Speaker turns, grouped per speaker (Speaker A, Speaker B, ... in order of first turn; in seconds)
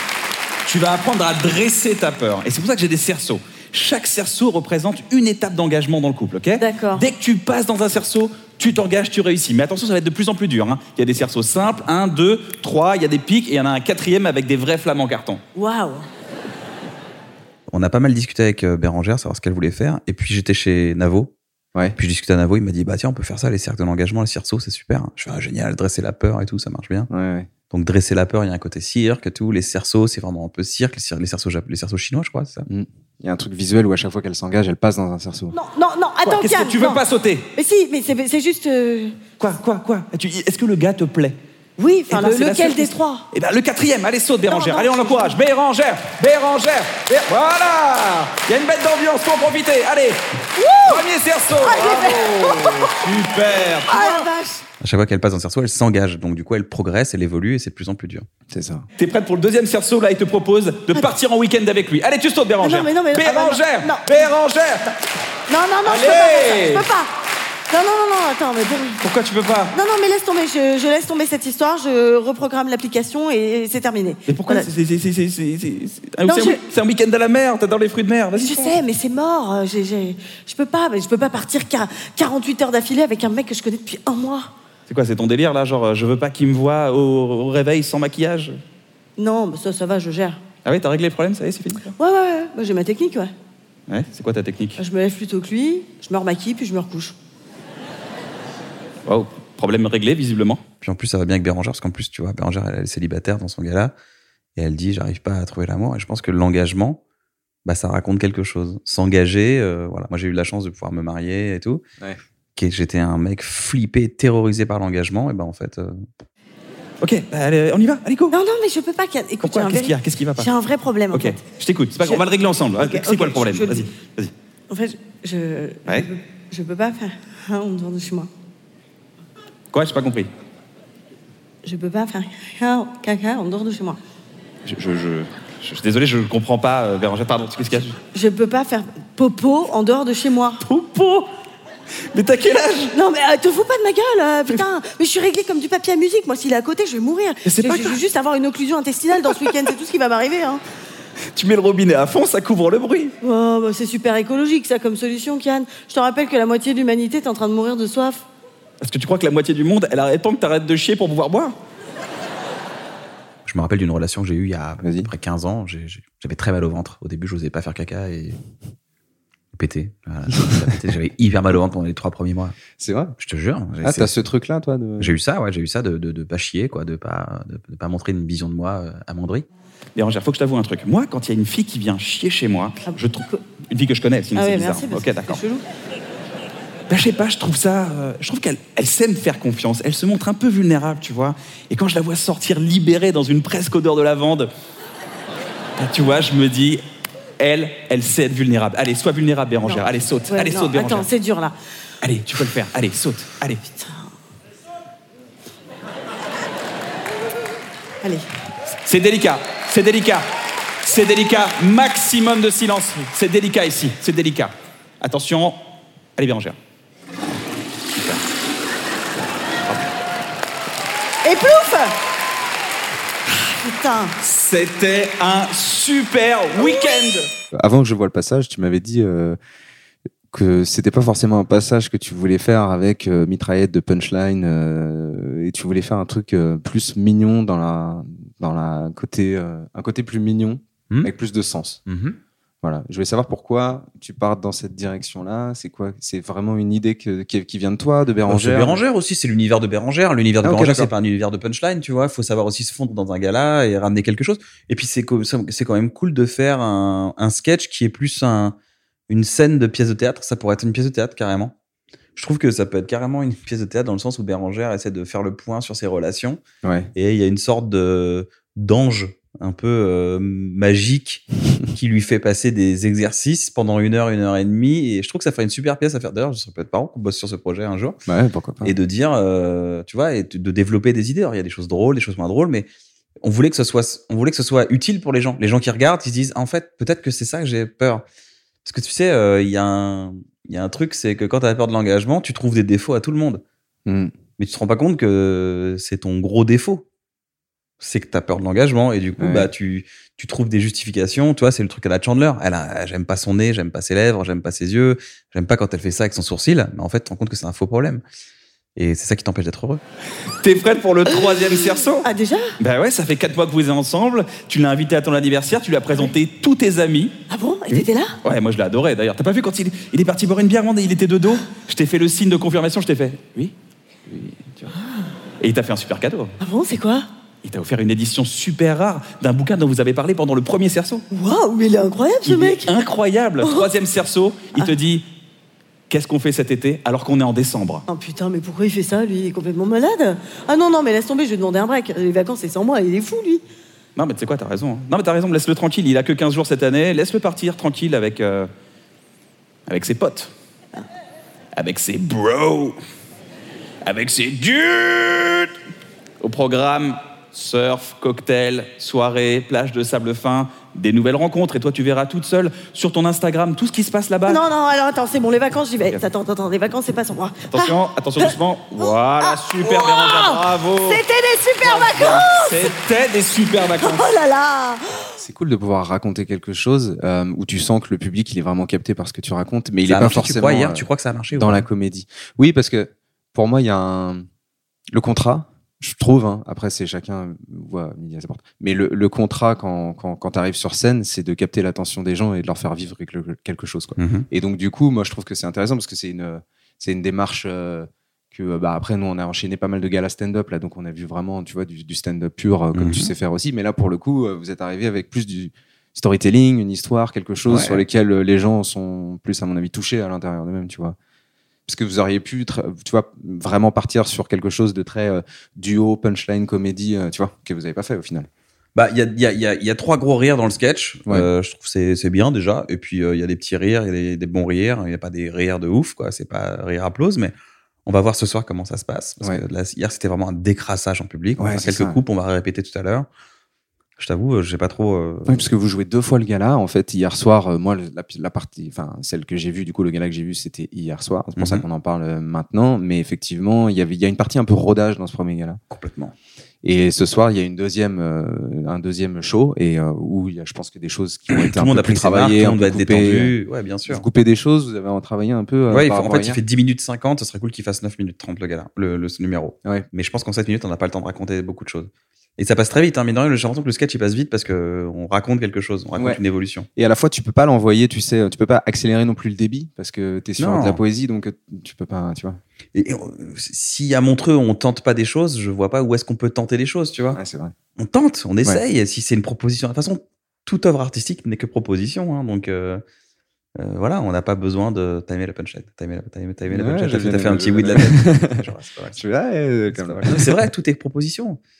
Speaker A: 0.7-15.4, 36.2-37.5, 39.4-41.4, 42.1-50.2, 50.8-54.2, 59.0-64.9, 65.8-66.8, 69.0-69.7, 74.3-78.8, 84.9-88.6, 90.6-91.9, 93.9-94.8, 99.0-100.6, 117.0-118.3, 119.4-120.5, 121.1-124.3, 129.7-130.3, 134.6-138.0, 140.6-141.3, 142.1-142.9, 147.4-148.0, 151.3-153.1, 158.8-161.6, 179.9-185.4, 186.9-194.5, 195.8-196.8, 197.4-201.1, 202.0-203.6, 208.8-210.2, 210.8-215.6, 216.2-216.6, 217.9-218.2, 224.2-227.3, 310.4-312.1, 312.6-317.1, 317.7-323.5, 325.4-326.3, 327.4-331.0, 332.2-335.1, 335.9-337.8, 343.9-348.5, 349.7-350.3, 351.6-352.8, 353.8-355.5, 356.2-364.4, 367.5-371.0, 371.6-374.1
Speaker B: 6.6-7.0, 15.6-16.1, 35.5-37.0, 37.5-39.2, 41.8-43.2, 44.5-45.4, 50.5-51.0, 51.6-53.2, 53.9-54.6, 62.6-64.1, 65.5-67.1, 67.7-69.0, 69.7-74.7, 76.2-76.6, 78.4-84.5, 89.2-90.4, 92.0-93.3, 94.8-97.1, 118.3-121.4, 122.8-123.9, 124.7-128.3, 131.6-134.0, 138.1-140.6, 142.9-150.6, 153.2-158.2, 182.9-183.4, 184.3-185.6, 199.6-201.5, 203.8-204.1, 221.2-221.9, 223.4-224.1, 312.0-312.6, 317.3-318.1, 326.4-327.1, 331.1-332.7, 333.4-333.7, 337.9-343.4, 364.3-372.7, 373.8-375.1
Speaker C: 17.7-21.3, 22.0-27.1, 27.7-32.6, 54.8-58.3, 100.8-103.9, 104.5-107.0, 107.6-111.8, 112.5-116.1, 163.4-168.4, 169.5-172.6, 173.2-174.1, 175.0-179.5, 241.9-242.2, 248.3-258.6, 259.1-261.5, 262.1-266.4, 266.9-278.0, 278.6-282.7, 283.2-288.0, 288.6-293.4, 294.4-296.8, 297.8-308.0, 308.8-309.8, 379.8-381.6, 394.0-394.2, 402.7-403.1, 407.5-407.8, 418.7-427.3, 427.9-433.1, 434.0-435.4, 441.4-441.6, 445.7-446.1, 451.3-454.0, 455.7-466.7, 470.4-470.8, 472.7-477.2, 477.8-482.8, 483.6-489.0, 489.7-491.4
Speaker D: 27.1-27.5, 32.7-35.5, 58.5-58.9, 164.8-165.1, 172.8-173.2, 173.8-175.1, 227.5-229.4, 230.3-241.8, 242.6-248.8, 250.4-250.9, 266.6-266.9, 278.1-278.7, 293.9-294.1, 299.2-299.5, 375.2-384.3, 384.9-410.9, 411.7-418.3, 431.4-432.0, 435.3-445.6, 446.6-453.3, 453.9-456.4, 465.9-466.2, 466.8-472.4, 477.1-477.5, 486.5-488.4, 488.9-490.5